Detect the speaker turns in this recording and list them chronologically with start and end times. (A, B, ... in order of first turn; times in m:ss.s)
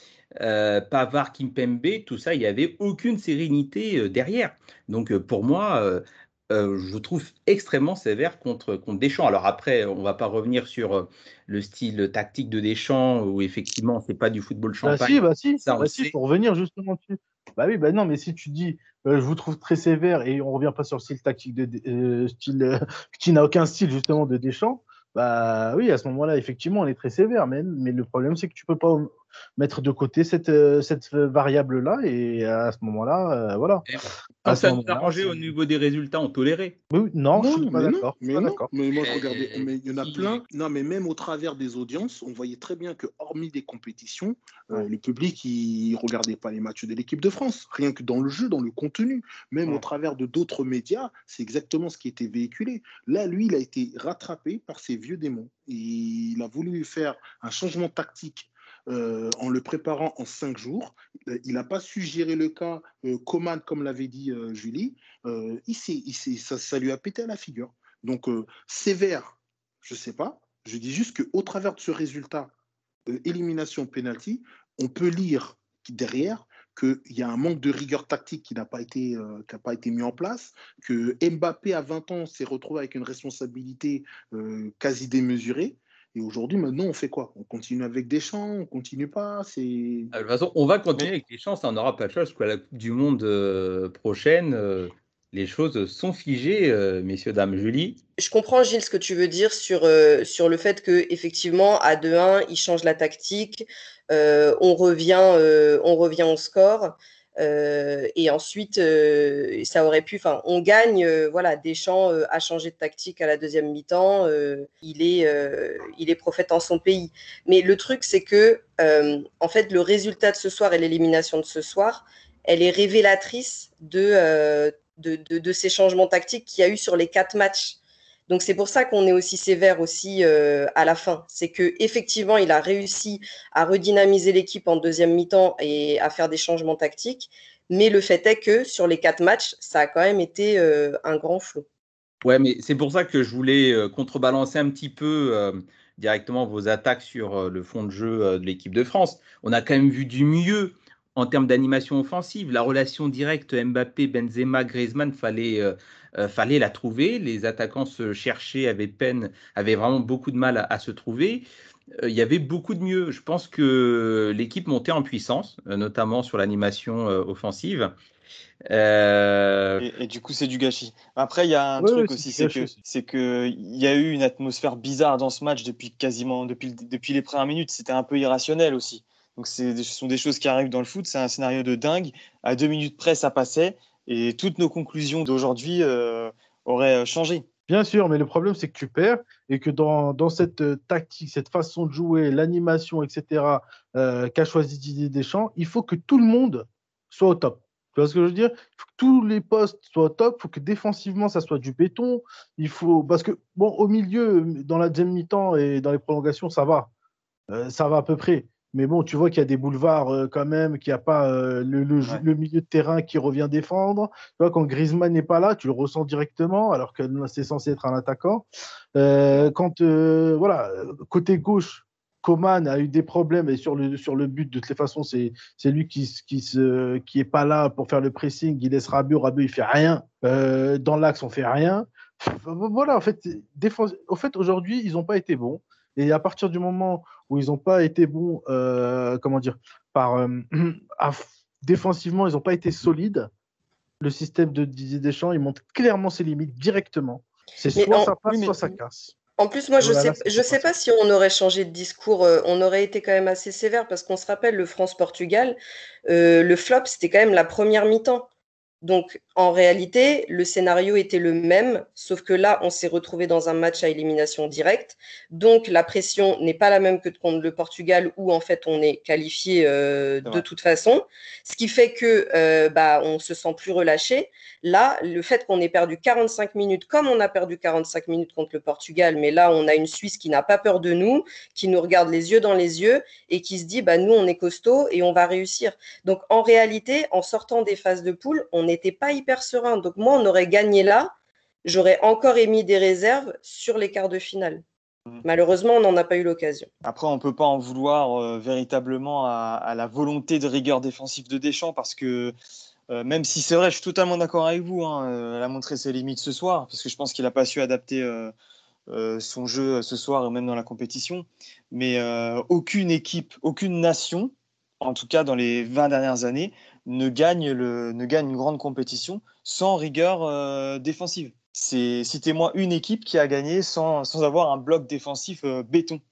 0:00.4-0:16.1 A
0:14.8-0:33.8 B
0:33.9-0:36.8 A
0:34.4-0:35.5 B
0:36.9-0:38.7 B
0:37.4-1:12.5 C
0:39.0-0:40.4 A
1:13.1-1:30.1 C
1:30.1-1:38.0 A
1:38.2-2:07.8 D
2:08.3-2:21.6 D
2:22.2-2:41.4 A
2:42.0-2:47.9 A
2:48.7-2:49.8 A
2:49.8-3:07.4 E
2:51.8-2:52.7 B
3:07.7-3:26.9 B
3:27.5-4:03.3 B
4:04.0-4:09.1 B
4:07.8-4:08.1 D
4:08.3-4:08.6 E
4:09.4-4:18.3 D
4:09.8-4:10.7 B
4:18.8-4:51.1 D
4:51.6-4:54.6 D
4:55.2-4:56.7 D
4:56.8-5:02.3 E
5:02.9-5:08.3 E
5:08.9-5:26.0 E